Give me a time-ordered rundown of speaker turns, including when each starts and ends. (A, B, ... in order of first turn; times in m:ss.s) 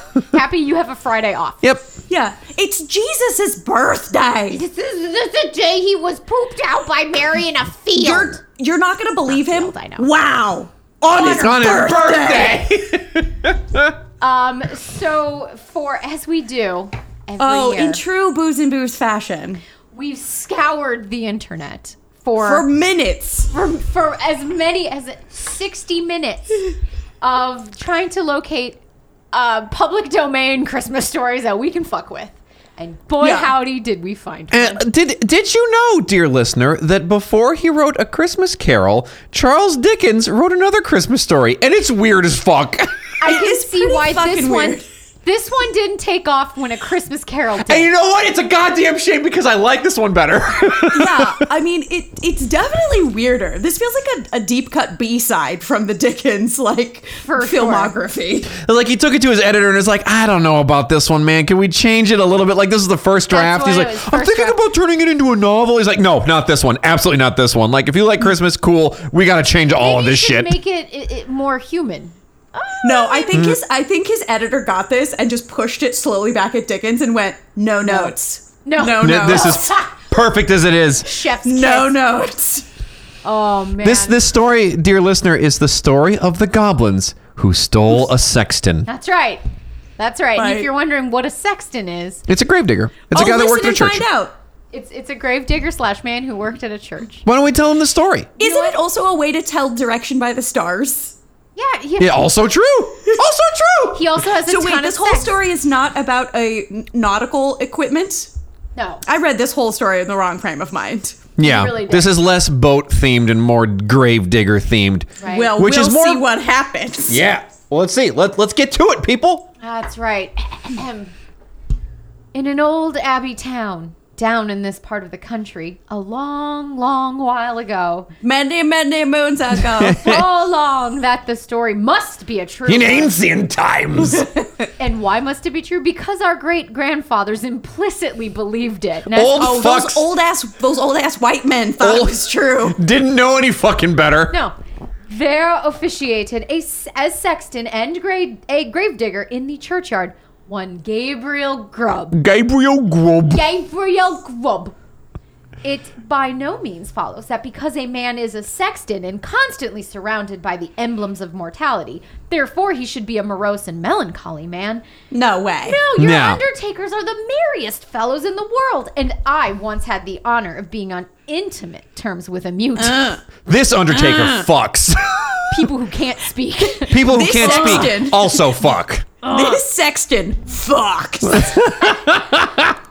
0:00.2-0:01.6 A
0:02.1-0:04.6 B
0:04.5-0:08.4 A
0:07.9-0:12.6 B
0:09.3-0:10.1 A
0:11.1-0:11.6 A
0:11.1-0:13.9 C
0:14.2-0:18.0 A
0:17.4-0:19.6 B
0:19.9-0:22.7 A
0:22.4-0:23.5 B
0:23.5-0:26.7 A
0:27.2-0:28.8 A
0:29.3-0:34.8 A
0:33.2-0:33.5 B
0:34.5-0:42.9 C
0:43.2-0:47.9 A
0:43.2-0:44.8 B
0:47.7-0:51.4 C
0:50.9-0:58.5 B
0:57.2-0:57.9 A
0:58.5-1:10.6 C
1:03.3-1:04.6 A
1:09.7-1:13.4 A
1:12.8-1:19.7 B
1:13.3-1:13.6 C
1:17.8-1:20.0 A
1:19.0-1:21.1 C
1:21.1-1:22.0 A
1:21.4-1:22.7 B
1:23.2-1:24.2 A
1:23.8-1:28.9 C
1:28.9-1:29.4 A
1:30.0-1:32.2 A
1:30.4-1:30.7 B
1:32.3-1:34.0 C
1:33.1-1:34.3 B
1:34.7-1:37.2 A
1:37.3-1:38.3 C
1:38.4-1:41.2 B
1:38.4-1:38.8 A
1:41.6-1:42.4 A
1:42.0-1:44.0 C
1:43.9-1:45.3 A
1:44.4-1:48.3 B
1:48.8-1:49.0 A
1:49.0-1:51.3 B
1:51.4-1:56.2 C
1:51.4-1:52.2 A
1:55.2-1:55.5 A
1:55.3-1:57.2 B
1:57.1-1:59.5 C
1:59.6-2:01.1 A
2:02.3-2:08.1 A
2:08.2-2:10.0 B
2:09.7-2:10.3 C
2:09.9-2:13.1 A
2:12.7-2:14.3 C
2:14.8-2:19.6 A
2:19.1-2:20.0 C
2:19.4-2:22.8 B
2:21.8-2:24.3 C
2:24.3-2:24.6 A
2:25.1-2:32.2 A
2:32.1-2:33.4 C
2:33.3-2:34.8 A
2:35.6-2:44.8 A
2:45.1-2:45.8 B
2:45.6-2:53.1 A
2:46.0-2:46.4 C
2:52.8-2:53.2 B
2:53.5-2:55.6 C
2:53.9-2:54.5 B
2:55.5-2:58.1 A
2:56.9-2:59.2 C
2:56.9-2:58.6 B
2:59.2-3:01.6 B
2:59.2-2:59.6 A
3:01.3-3:02.7 C